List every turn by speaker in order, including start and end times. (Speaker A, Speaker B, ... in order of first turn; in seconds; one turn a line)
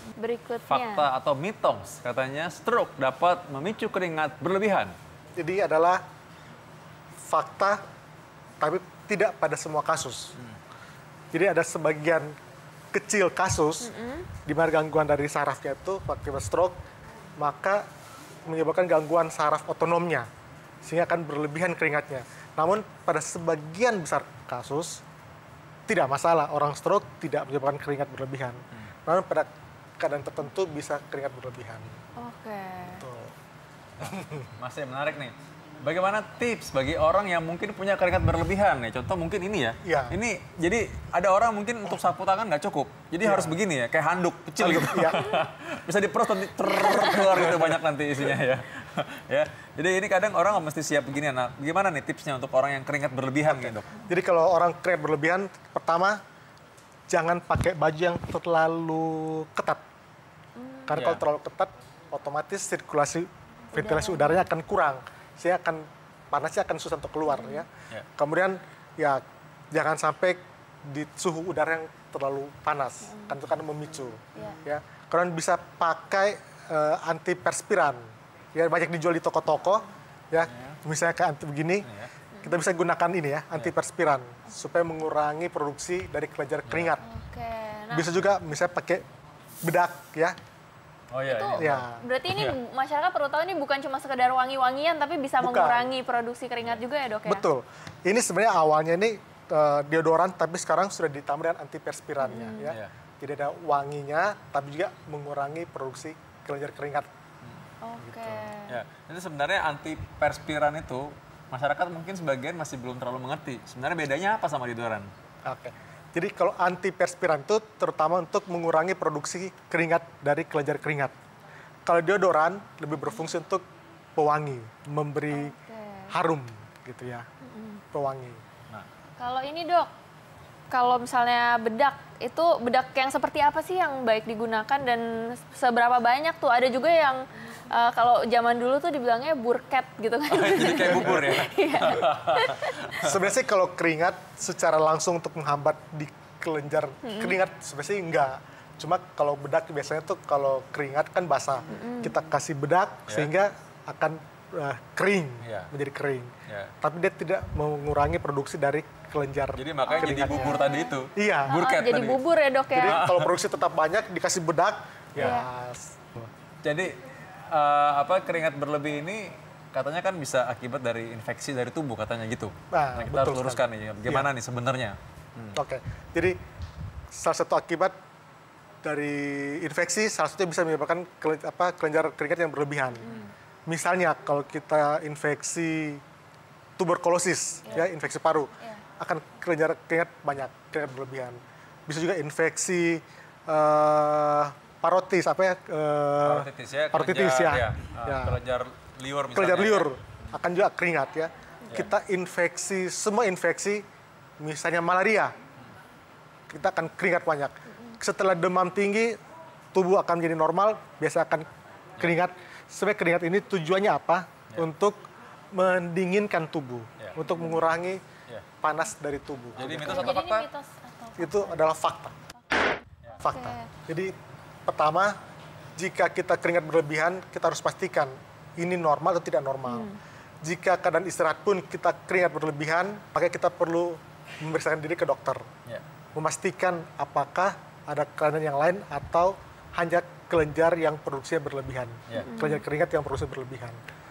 Speaker A: 0.2-1.1
Speaker B: 0.7-4.9
Speaker C: 5.4-6.0
Speaker C: 7.2-7.8
Speaker C: 8.6-10.3
Speaker C: 11.3-12.3
Speaker C: 12.9-13.9
Speaker A: 13.8-14.3
Speaker C: 14.4-16.8
Speaker C: 17.4-17.8
Speaker C: 18.4-20.3
Speaker C: 20.8-25.0
Speaker C: 25.9-31.9
Speaker A: 32.2-33.0
Speaker C: 32.9-33.3
Speaker B: 34.0-53.9
Speaker C: 34.0-34.5
Speaker C: 39.8-40.2
Speaker C: 43.2-43.6
Speaker C: 44.6-45.2
Speaker C: 47.1-47.7
Speaker C: 53.5-56.2
Speaker C: 57.1-59.8
Speaker A: 60.6-60.9
Speaker C: 60.9-81.9
Speaker B: 60.9-61.2
Speaker A: 63.7-64.4
Speaker A: 67.3-67.6
Speaker A: 73.1-73.3
Speaker B: 80.5-80.8
Speaker B: 81.8-82.1
Speaker C: 82.4-87.0
Speaker B: 86.7-87.0
Speaker A: 87.0-88.1
Speaker C: 87.9-89.0
Speaker C: 89.6-90.3
Speaker B: 91.1-92.5
Speaker A: 91.3-97.4
Speaker C: 91.6-92.0
Speaker C: 95.4-95.9
Speaker C: 97.2-107.1
Speaker A: 102.2-102.7
Speaker B: 102.6-102.9
Speaker A: 107.8-108.8
Speaker C: 108.0-108.5
Speaker B: 108.7-115.1
Speaker C: 115.4-121.1
Speaker C: 121.8-123.7
Speaker C: 124.2-125.6
Speaker A: 125.3-126.1
Speaker C: 126.1-127.3
Speaker A: 127.4-127.8
Speaker C: 127.9-128.4
Speaker A: 129.2-129.9
Speaker A: 130.7-142.9
Speaker B: 140.3-143.2
Speaker C: 141.0-141.3
Speaker C: 143.0-160.6
Speaker A: 147.0-147.3
Speaker A: 151.7-152.2
Speaker B: 155.4-155.7
Speaker B: 159.6-162.2
Speaker A: 159.9-160.9
Speaker C: 161.2-161.6
Speaker A: 161.5-163.0
Speaker C: 162.7-166.3
Speaker B: 162.8-163.3
Speaker A: 165.2-165.4
Speaker B: 166.6-167.0
Speaker B: 167.5-175.6
Speaker C: 172.7-174.3
Speaker C: 175.5-176.4
Speaker C: 177.1-177.9
Speaker C: 178.8-183.1
Speaker A: 182.9-183.3
Speaker C: 183.7-186.0
Speaker C: 186.8-198.4
Speaker B: 196.2-199.9
Speaker C: 199.3-203.8
Speaker C: 204.4-205.3
Speaker C: 206.5-209.2
Speaker C: 209.7-211.5
Speaker C: 212.0-215.0
Speaker C: 215.5-218.0
Speaker A: 217.3-217.6
Speaker C: 218.6-220.1
Speaker B: 219.6-220.5
Speaker A: 219.7-221.6
Speaker C: 221.2-222.2
Speaker A: 222.4-222.7
Speaker A: 223.2-223.7
Speaker C: 223.2-224.1
Speaker C: 224.7-225.2
Speaker C: 225.8-229.9
Speaker A: 229.7-230.0
Speaker C: 230.4-235.4
Speaker C: 236.2-243.8
Speaker A: 242.2-242.6